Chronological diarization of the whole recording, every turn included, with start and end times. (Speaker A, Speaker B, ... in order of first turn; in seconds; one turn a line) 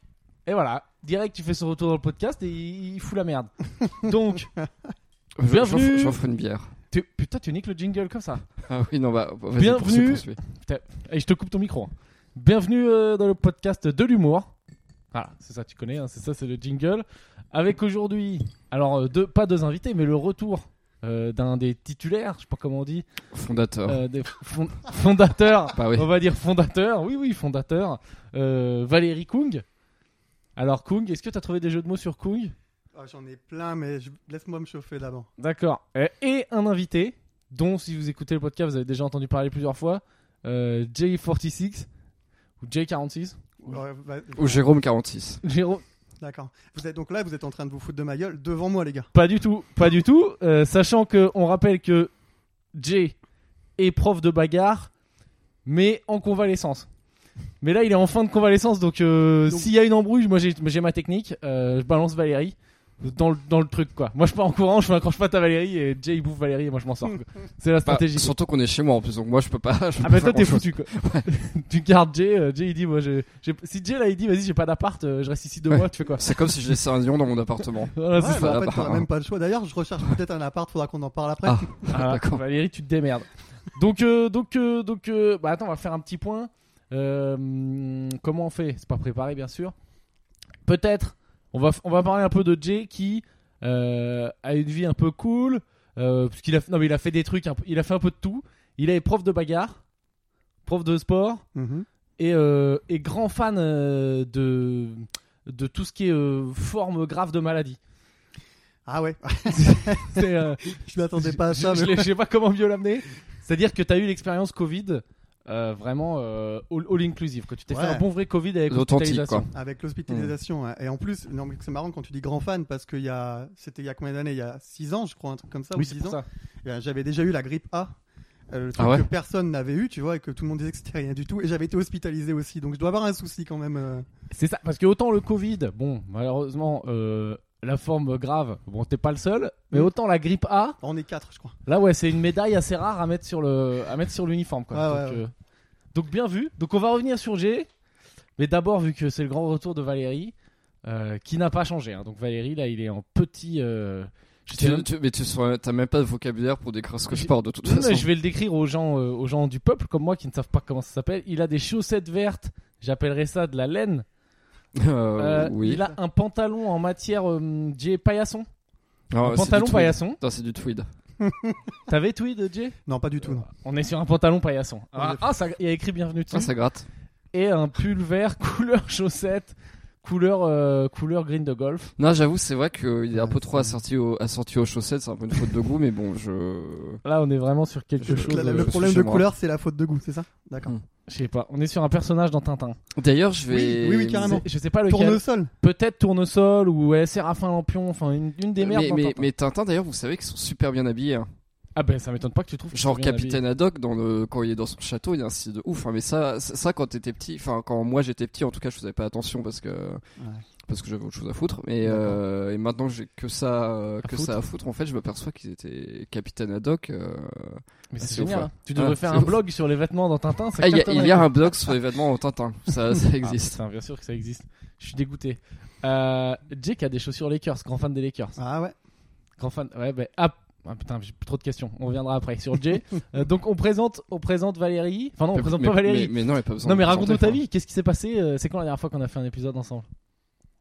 Speaker A: 0.5-4.5
Speaker B: 5.4-6.7
Speaker A: 5.5-6.2
Speaker A: 6.9-8.4
Speaker B: 8.7-10.4
Speaker A: 9.6-14.5
Speaker A: 15.1-23.0
Speaker B: 23.3-24.0
Speaker A: 23.9-29.6
Speaker B: 25.7-26.1
Speaker A: 30.6-32.5
Speaker C: 33.0-35.3
Speaker A: 35.4-41.9
Speaker A: 42.6-43.6
Speaker C: 43.6-44.6
Speaker B: 44.3-45.4
Speaker A: 45.4-45.8
Speaker C: 46.2-49.1
Speaker A: 49.1-52.1
Speaker A: 52.7-53.1
Speaker A: 53.8-54.9
Speaker A: 55.6-56.9
Speaker A: 57.6-68.3
Speaker B: 67.8-71.2
Speaker A: 70.0-76.3
Speaker B: 75.7-79.0
Speaker A: 77.9-78.6
Speaker C: 78.1-81.7
Speaker B: 81.4-82.4
Speaker A: 81.9-89.7
Speaker A: 90.6-99.8
Speaker A: 100.7-101.4
Speaker C: 101.5-101.9
Speaker A: 102.2-107.8
Speaker C: 108.8-112.1
Speaker A: 109.5-119.5
Speaker C: 117.7-118.0
Speaker B: 118.7-119.5
Speaker C: 119.5-128.0
Speaker A: 125.8-126.2
Speaker C: 128.5-134.1
Speaker B: 128.8-129.1
Speaker A: 134.3-140.8
Speaker C: 140.8-141.6
Speaker A: 141.7-145.3
Speaker C: 144.7-145.2
Speaker A: 145.9-147.7
Speaker A: 148.4-150.3
Speaker A: 150.8-154.9
Speaker B: 154.5-158.1
Speaker A: 157.1-164.0
Speaker B: 164.8-165.8
Speaker A: 165.2-168.5
Speaker B: 169.1-170.9
Speaker A: 169.2-170.2
Speaker C: 171.2-171.6
Speaker A: 171.9-172.8
Speaker C: 172.9-173.5
Speaker A: 173.5-176.5
Speaker C: 175.0-175.2
Speaker B: 176.3-176.9
Speaker A: 177.3-181.9
Speaker B: 182.0-187.0
Speaker C: 183.1-183.7
Speaker A: 187.0-188.7
Speaker B: 188.0-189.2
Speaker C: 188.1-190.7
Speaker A: 191.1-192.8
Speaker B: 192.9-194.4
Speaker C: 193.5-195.5
Speaker A: 194.2-199.3
Speaker B: 198.6-201.3
Speaker A: 201.8-203.4
Speaker B: 202.7-210.0
Speaker C: 210.2-210.4
Speaker B: 210.7-219.3
Speaker A: 214.0-214.3
Speaker A: 217.9-221.7
Speaker B: 220.6-223.6
Speaker A: 223.2-228.4
Speaker C: 228.4-228.7
Speaker A: 229.4-239.9
Speaker B: 235.3-237.4